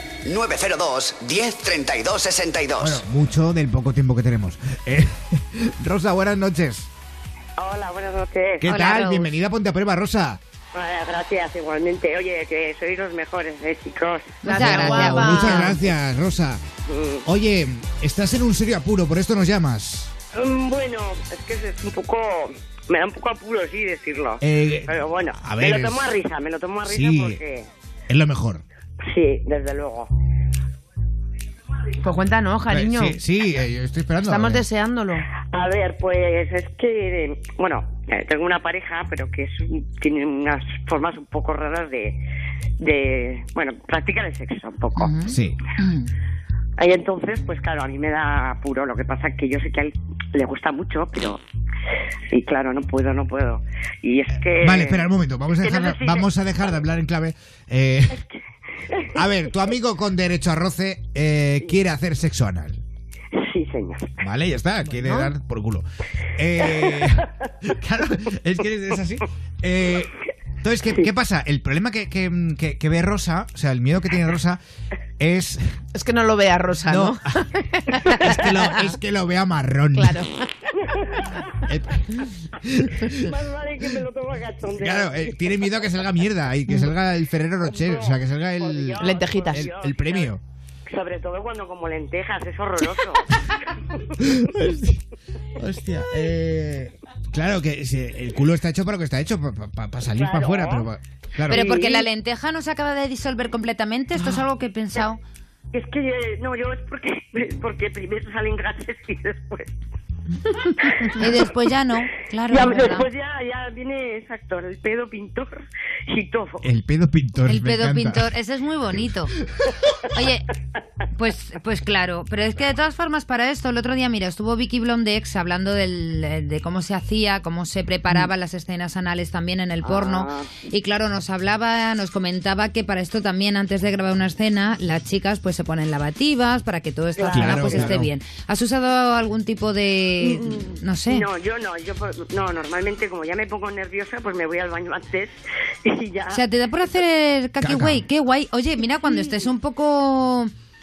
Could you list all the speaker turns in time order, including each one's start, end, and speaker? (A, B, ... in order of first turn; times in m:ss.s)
0:00.2-0:03.0 A
0:02.8-0:06.9 B
0:07.6-0:08.7 C
0:08.6-0:10.4 B
0:08.7-0:09.3 D
0:10.7-0:14.4 C
0:14.4-0:15.8 D
0:14.4-0:15.8 E
0:14.6-0:16.6 B
0:16.9-0:17.2 C
0:17.2-0:20.1 B
0:20.3-0:27.7 C
0:24.4-0:26.1 B
0:26.8-0:27.4 B
0:28.1-0:28.6 B
0:29.0-0:30.1 C
0:32.0-0:33.2 E
0:32.7-0:34.6 B
0:34.2-0:35.3 E
0:35.4-0:42.2 C
0:42.8-0:45.1 C
0:45.0-0:46.1 D
0:45.3-0:45.6 B
0:46.8-0:51.4 C
0:52.3-0:55.1 C
0:54.6-0:58.2 B
0:55.6-0:56.3 C
0:58.1-0:58.4 C
0:58.9-0:59.2 C
0:59.1-1:02.8 B
1:03.3-1:04.2 C
1:04.2-1:05.8 B
1:05.0-1:05.3 E
1:06.4-1:14.6 B
1:06.6-1:07.3 C
1:15.2-1:15.8 B
1:15.9-1:18.8 E
1:16.8-1:17.5 B
1:18.1-1:20.3 B
1:20.0-1:20.4 E
1:20.7-1:21.8 C
1:21.7-1:23.3 B
1:23.1-1:25.6 C
1:24.8-1:30.4 B
1:27.6-1:30.3 C
1:29.0-1:29.6 E
1:30.9-1:34.0 C
1:34.2-1:35.0 B
1:35.6-1:41.6 B
1:40.2-1:40.9 C
1:41.5-1:45.2 D
1:41.5-1:42.1 C
1:45.7-1:49.7 C
1:50.5-1:51.2 C
1:51.1-1:53.1 D
1:52.5-1:56.6 C
1:56.6-1:58.3 B
1:57.5-1:59.3 D
1:59.4-1:59.7 B
2:00.1-2:00.5 D
2:01.1-2:21.3 D
2:09.8-2:10.5 C
2:17.2-2:18.0 C
2:17.3-2:18.1 B
2:20.2-2:26.4 C
2:26.3-2:30.5 D
2:27.6-2:28.0 B